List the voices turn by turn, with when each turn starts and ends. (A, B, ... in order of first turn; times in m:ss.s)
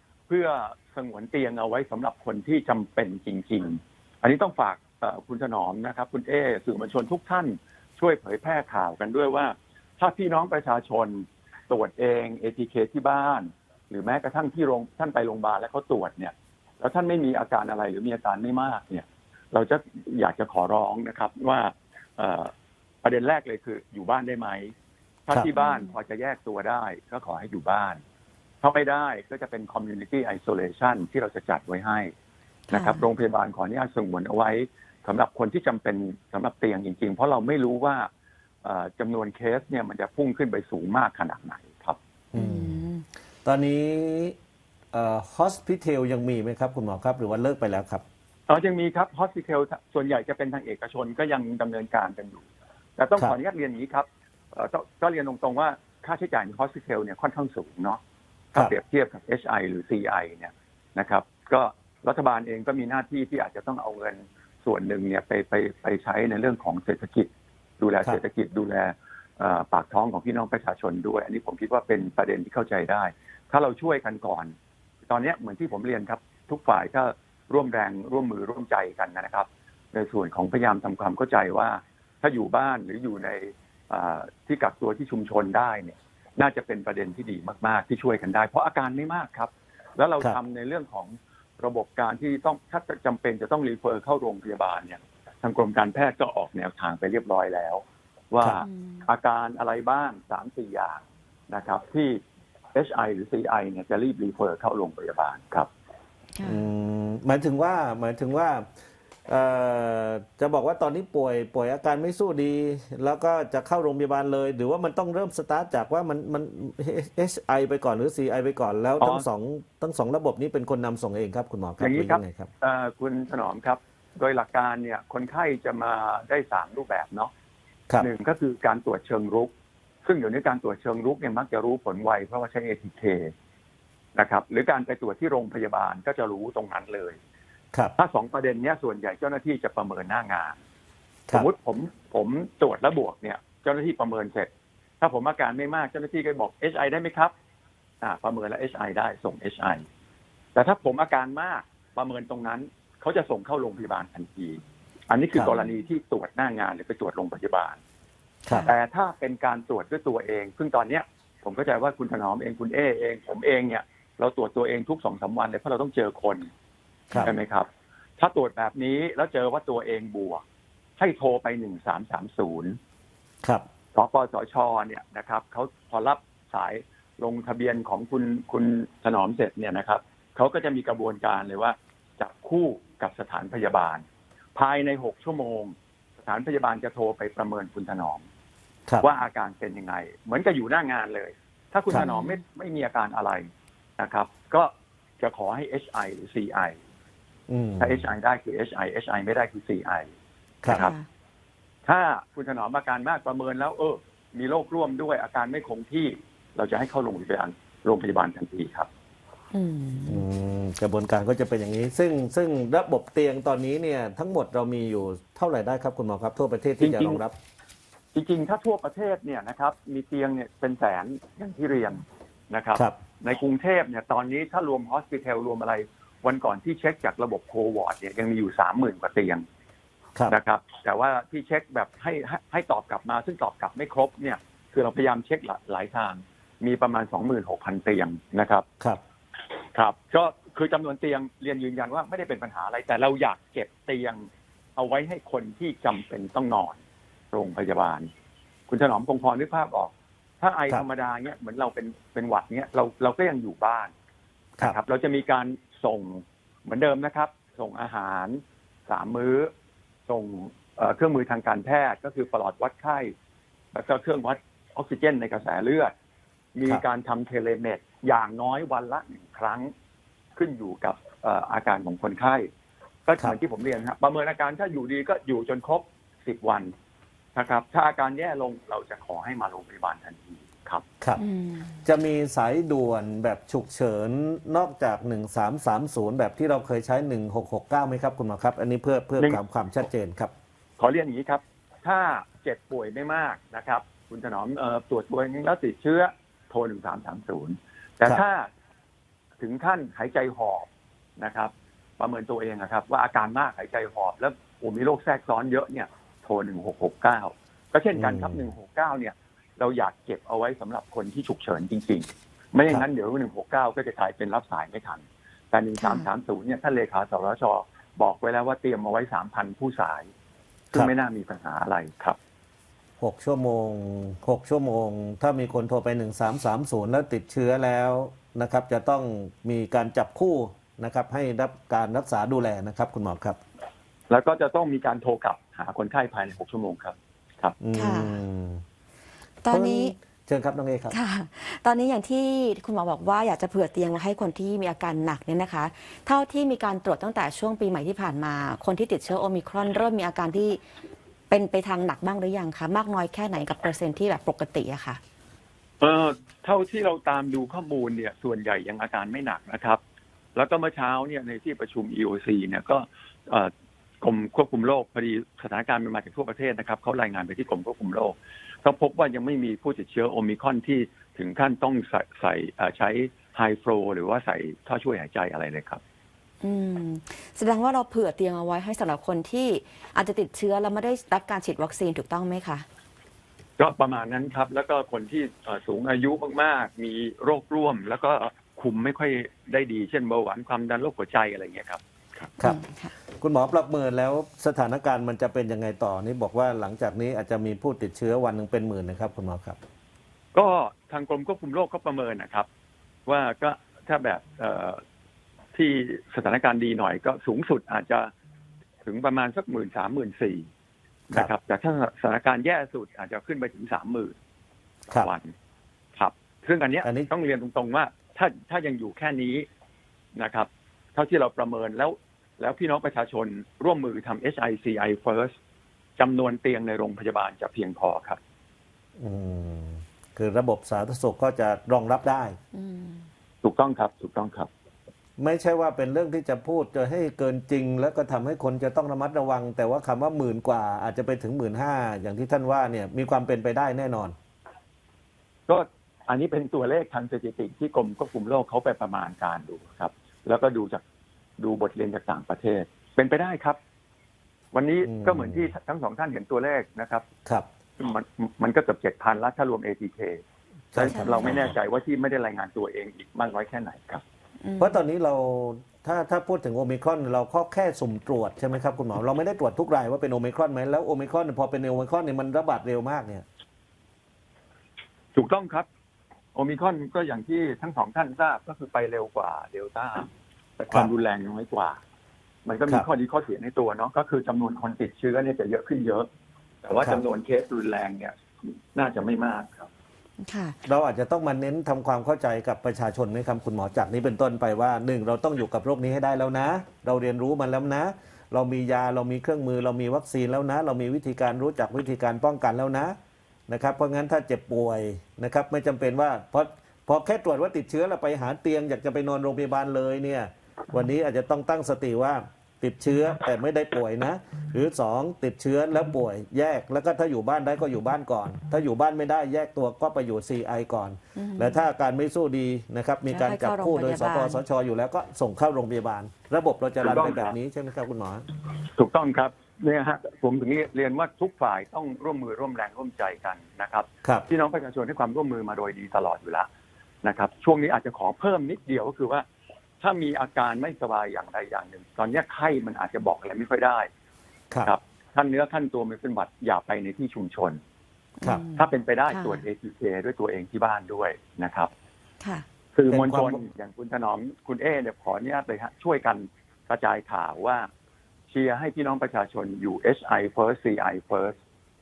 0:00.3-0:22.5 A
0:23.0-0:24.7 A
0:25.3-0:28.0 A
0:25.6-0:25.9 B
0:28.6-0:32.1 A
0:32.7-0:33.0 B
0:32.7-0:38.1 A
0:38.6-0:42.0 A
0:42.4-0:43.0 B
0:42.4-0:42.9 C
0:43.4-0:44.4 C
0:44.9-0:48.0 C
0:48.5-0:52.4 A
0:53.0-0:58.0 A
0:58.5-1:14.5 A
1:15.1-1:42.2 A
1:38.6-1:39.1 B
1:42.7-1:45.7 A
1:46.4-1:46.7 B
1:46.4-1:48.7 C
1:49.3-2:02.5 C
1:59.0-1:59.3 A
2:01.8-2:07.3 A
2:08.0-2:09.5 A
2:10.0-2:13.3 A
2:14.2-2:17.2 A
2:18.0-2:20.6 A
2:21.3-2:24.5 A
2:25.0-2:27.3 A
2:28.0-2:29.8 A
2:30.6-2:37.8 A
2:38.7-2:46.5 A
2:47.2-2:50.4 A
2:51.0-2:52.8 A
2:53.9-3:04.0 A
3:04.6-3:08.2 A
3:09.0-3:13.5 A
3:11.9-3:12.4 B
3:14.0-3:16.8 A
3:17.5-3:18.1 C
3:17.8-3:20.1 A
3:20.7-3:21.0 A
3:20.7-3:21.0 B
3:21.8-3:28.9 A
3:29.5-3:30.2 B
3:30.1-3:37.4 C
3:36.8-3:37.2 A
3:38.1-3:49.4 A
3:50.3-3:58.6 A
3:59.7-4:06.8 A
4:07.3-4:08.1 A
4:08.7-4:13.9 A
4:14.6-4:19.5 A
4:20.1-4:23.1 A
4:23.7-4:25.9 A
4:26.6-4:29.7 A
4:30.4-4:32.5 A
4:33.1-4:36.7 A
4:37.4-4:40.8 A
4:41.2-4:41.8 B
4:41.8-4:50.3 C
4:50.8-4:58.5 A
4:59.4-5:20.1 A
5:08.0-5:08.4 C
5:15.8-5:16.1 B
5:20.7-5:22.2 A
5:23.0-5:33.4 C
5:34.1-5:37.6 A
5:37.6-5:38.6 C
5:37.8-5:38.2 B
5:39.4-5:39.9 B
5:39.5-5:41.0 C
5:40.9-5:50.6 B
5:51.3-5:55.0 B
5:55.8-5:59.8 A
6:00.4-6:15.8 A
6:16.4-6:22.7 B
6:23.6-6:32.3 A
6:32.4-6:32.9 B
6:33.2-6:39.6 C
6:40.3-6:42.5 A
6:43.1-6:44.8 A
6:45.5-6:48.1 A
6:48.9-6:50.5 A
6:51.1-6:54.2 A
6:54.9-6:55.3 A
6:56.0-6:59.5 A
6:56.8-6:57.1 C
7:00.2-7:05.4 A
7:06.0-7:08.2 A
7:09.0-7:12.4 C
7:12.5-7:13.1 B
7:13.4-7:14.5 A
7:15.2-7:24.2 C
7:25.5-7:30.8 A
7:31.4-7:33.6 A
7:34.5-7:37.1 A
7:34.8-7:35.5 C
7:37.8-7:40.2 A
7:40.7-7:41.5 C
7:40.7-7:44.0 A
7:40.9-7:41.5 B
7:44.4-7:44.8 B
7:44.6-7:53.3 C
7:55.2-7:55.7 A
7:56.4-8:01.8 A
8:02.4-8:06.1 A
8:06.6-8:09.7 A
8:10.2-8:10.6 B
8:10.6-8:23.0 C
8:23.5-8:48.2 C
8:41.2-8:41.6 B
8:43.1-8:44.4 B
8:46.8-8:47.4 A
8:48.7-8:56.5 A
8:57.0-8:59.2 A
8:59.8-9:03.9 A
9:04.6-9:07.6 A
9:08.2-9:09.4 B
9:08.6-9:11.7 A
9:12.8-9:17.7 A
9:12.9-9:13.4 C
9:18.3-9:21.4 A